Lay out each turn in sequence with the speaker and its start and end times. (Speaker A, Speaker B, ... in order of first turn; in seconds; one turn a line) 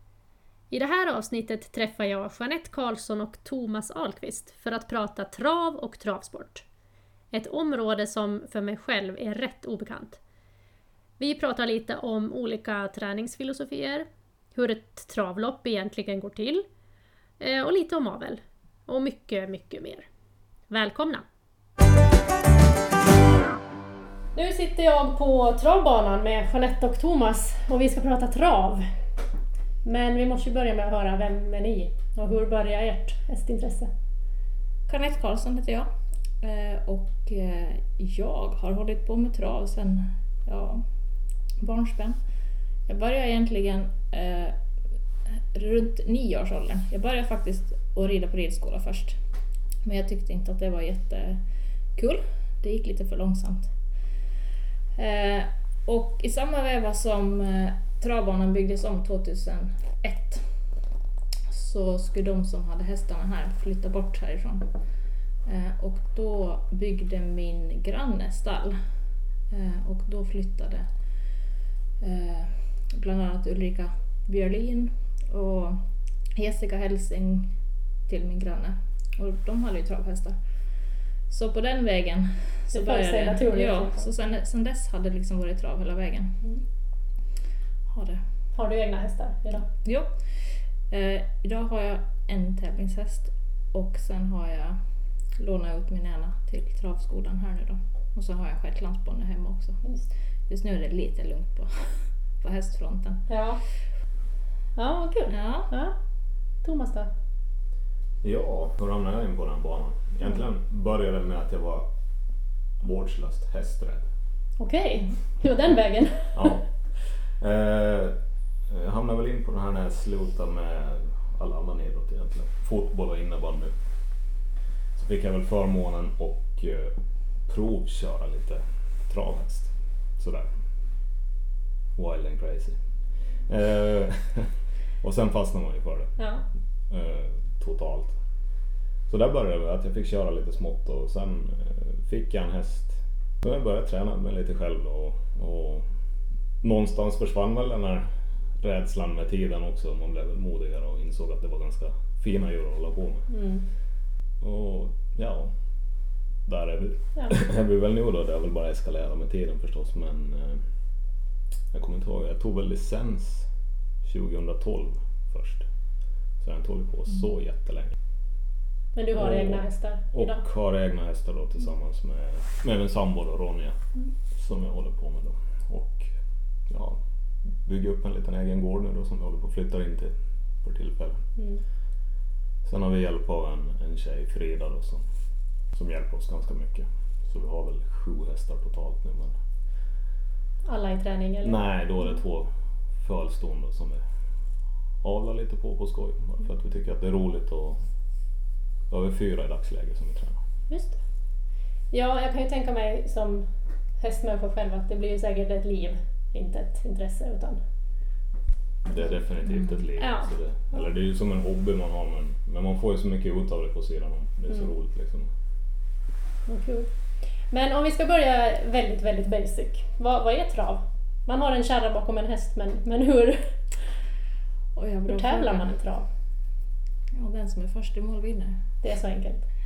Speaker A: 0.7-6.7
Speaker A: 7.3-10.2
Speaker A: 11.2-16.7
Speaker A: 17.4-20.1
Speaker A: 20.7-21.2
Speaker A: 24.4-28.9
Speaker A: 29.8-33.9
Speaker B: 34.9-35.9
Speaker B: 36.4-40.9
Speaker B: 41.6-42.2
Speaker B: 42.9-44.6
Speaker B: 45.2-49.2
Speaker B: 49.8-53.8
Speaker B: 55.0-60.8
Speaker B: 61.5-64.8
Speaker B: 65.4-69.0
Speaker B: 69.5-71.5
Speaker B: 72.0-86.4
Speaker A: 82.7-84.1
Speaker B: 87.9-88.2
Speaker A: 88.5-89.7
Speaker B: 89.8-94.8
Speaker B: 95.4-103.8
Speaker A: 99.8-100.1
Speaker A: 103.3-103.6
Speaker A: 104.8-106.0
Speaker B: 105.3-105.7
Speaker A: 106.6-107.1
Speaker C: 108.2-111.9
Speaker C: 112.8-114.0
Speaker A: 114.6-116.6
Speaker C: 116.3-118.2
Speaker C: 118.7-123.7
Speaker C: 125.0-130.5
Speaker C: 132.0-136.2
Speaker A: 136.2-136.4
Speaker C: 136.9-138.2
Speaker C: 139.1-145.9
Speaker C: 146.6-148.1
Speaker C: 148.6-153.3
Speaker A: 153.3-153.7
Speaker C: 154.4-155.5
Speaker C: 156.4-160.6
Speaker C: 161.7-163.5
Speaker C: 164.0-165.7
Speaker C: 166.4-168.0
Speaker A: 168.9-170.4
Speaker C: 169.1-176.1
Speaker C: 176.7-181.2
Speaker A: 181.4-181.6
Speaker C: 182.6-185.0
Speaker C: 185.7-189.4
Speaker A: 190.7-191.6
Speaker C: 191.4-194.0
Speaker C: 195.0-197.8
Speaker C: 198.9-200.4
Speaker A: 200.7-201.0
Speaker A: 201.9-207.6
Speaker C: 208.8-215.3
Speaker B: 209.4-209.9
Speaker A: 210.0-210.8
Speaker A: 216.5-224.1
Speaker B: 224.8-225.8
Speaker A: 225.1-226.1
Speaker B: 227.2-228.6
Speaker A: 228.8-229.4